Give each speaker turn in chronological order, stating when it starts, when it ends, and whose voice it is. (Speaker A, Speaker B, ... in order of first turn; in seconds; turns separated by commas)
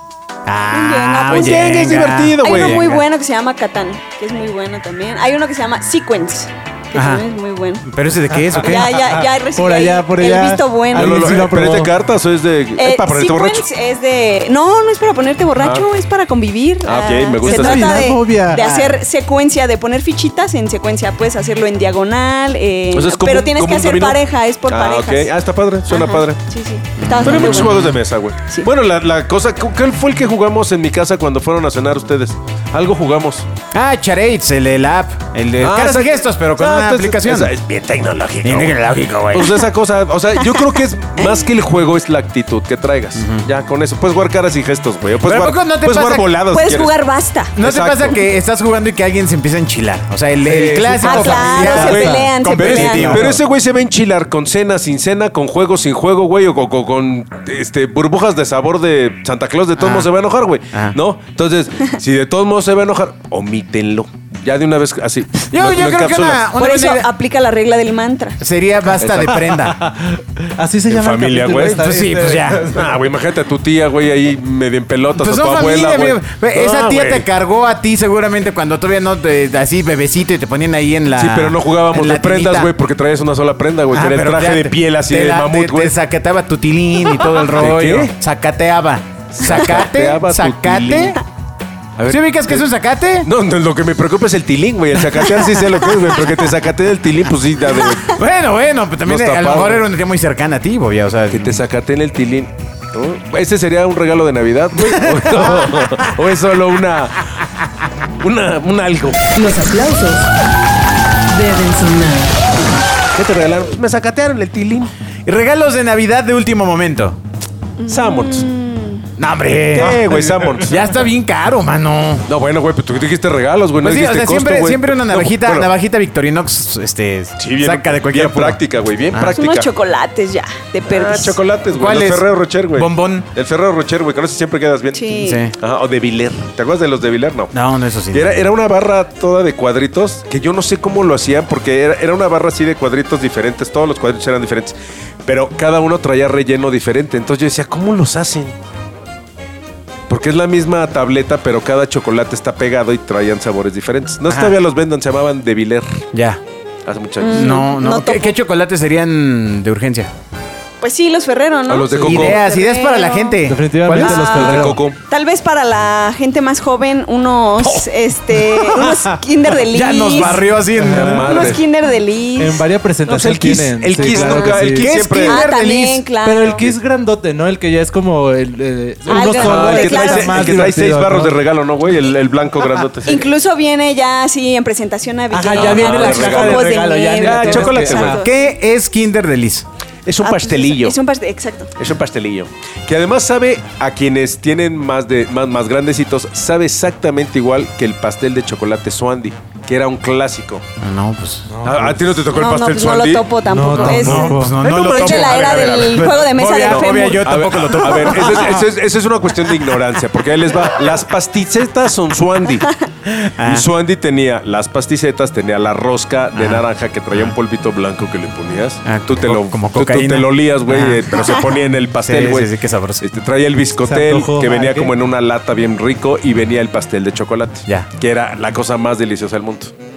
Speaker A: 0.5-3.0, Speaker B: 0.7-1.6, Speaker C: 1.3-2.9, Speaker B: 2.4-7.8, Speaker A: 6.9-7.2, Speaker A: 7.8-8.9, Speaker D: 8.4-11.9, Speaker B: 8.6-11.3, Speaker C: 10.9-13.7, Speaker B: 12.8-25.3, Speaker C: 15.6-15.9, Speaker C: 16.8-18.1, Speaker D: 17.4-18.9, Speaker C: 22.9-26.4, Speaker B: 25.9-28.7, Speaker A: 27.0-27.9, Speaker C: 27.2-33.5, Speaker A: 33.7-37.5, Speaker C: 35.6-38.8, Speaker A: 38.4-39.6, Speaker C: 39.3-46.9, Speaker B: 41.2-41.5, Speaker A: 43.1-43.4, Speaker A: 45.2-46.3, Speaker B: 46.5-47.5, Speaker A: 47.5-53.4, Speaker C: 47.6-48.2, Speaker C: 50.5-66.5, Speaker D: 50.6-52.2, Speaker B: 51.0-53.2, Speaker A: 59.8-60.1, Speaker A: 65.5-67.0, Speaker B: 66.5-68.4, Speaker A: 68.4-69.8, Speaker C: 69.0-69.3, Speaker D: 69.3-72.9, Speaker C: 70.9-71.8, Speaker A: 71.8-72.7, Speaker C: 72.7-77.3, Speaker A: 75.1-82.7, Speaker C: 81.1-86.0, Speaker A: 83.9-91.2, Speaker C: 87.5-88.1, Speaker C: 89.3-91.2, Speaker C: 92.0-92.6, Speaker A: 92.1-93.3, Speaker C: 93.2-98.2, Speaker A: 98.1-101.6, Speaker C: 99.0-99.8, Speaker C: 101.3-107.3, Speaker A: 104.9-105.6, Speaker C: 108.2-109.2, Speaker E: 109.3-110.3, Speaker E: 111.3-112.4, Speaker C: 113.1-114.9, Speaker A: 115.2-117.2, Speaker B: 117.8-119.0, Speaker C: 117.9-118.5, Speaker A: 119.2-122.3, Speaker C: 119.7-120.8, Speaker C: 122.3-125.7, Speaker A: 123.8-128.6, Speaker C: 127.4-129.7, Speaker A: 129.1-129.4, Speaker B: 129.3-131.4, Speaker C: 130.9-137.5, Speaker A: 131.7-133.3, Speaker B: 134.9-135.4, Speaker A: 135.2-135.5, Speaker A: 137.5-138.4, Speaker C: 138.1-148.5, Speaker C: 150.1-156.0, Speaker A: 154.3-154.5, Speaker A: 156.1-156.4, Speaker C: 156.8-157.6, Speaker B: 157.2-158.3, Speaker A: 157.2-160.1, Speaker B: 160.8-163.4, Speaker C: 161.7-162.4, Speaker D: 161.9-162.2, Speaker A: 162.0-164.2, Speaker D: 163.5-164.8, Speaker B: 163.9-170.5, Speaker C: 164.2-165.0, Speaker A: 169.7-171.5, Speaker D: 170.8-171.5, Speaker C: 170.9-171.6, Speaker B: 171.2-172.6, Speaker D: 172.4-174.9, Speaker C: 173.1-175.4, Speaker A: 174.1-176.0, Speaker B: 175.2-176.6, Speaker D: 176.2-181.4, Speaker C: 176.5-176.8, Speaker B: 179.1-180.7, Speaker C: 179.1-183.2, Speaker B: 183.1-188.3, Speaker D: 185.3-188.2, Speaker C: 185.5-188.2, Speaker A: 188.1-189.7, Speaker C: 190.1-190.9, Speaker B: 190.2-191.7, Speaker C: 191.8-200.6, Speaker A: 200.8-201.5, Speaker D: 201.5-202.1, Speaker C: 201.6-212.7, Speaker B: 202.3-207.3, Speaker D: 203.5-204.6, Speaker A: 203.7-208.7, Speaker A: 213.1-213.7, Speaker C: 213.4-229.7, Speaker A: 216.3-217.3, Speaker A: 218.8-223.0, Speaker D: 223.8-224.9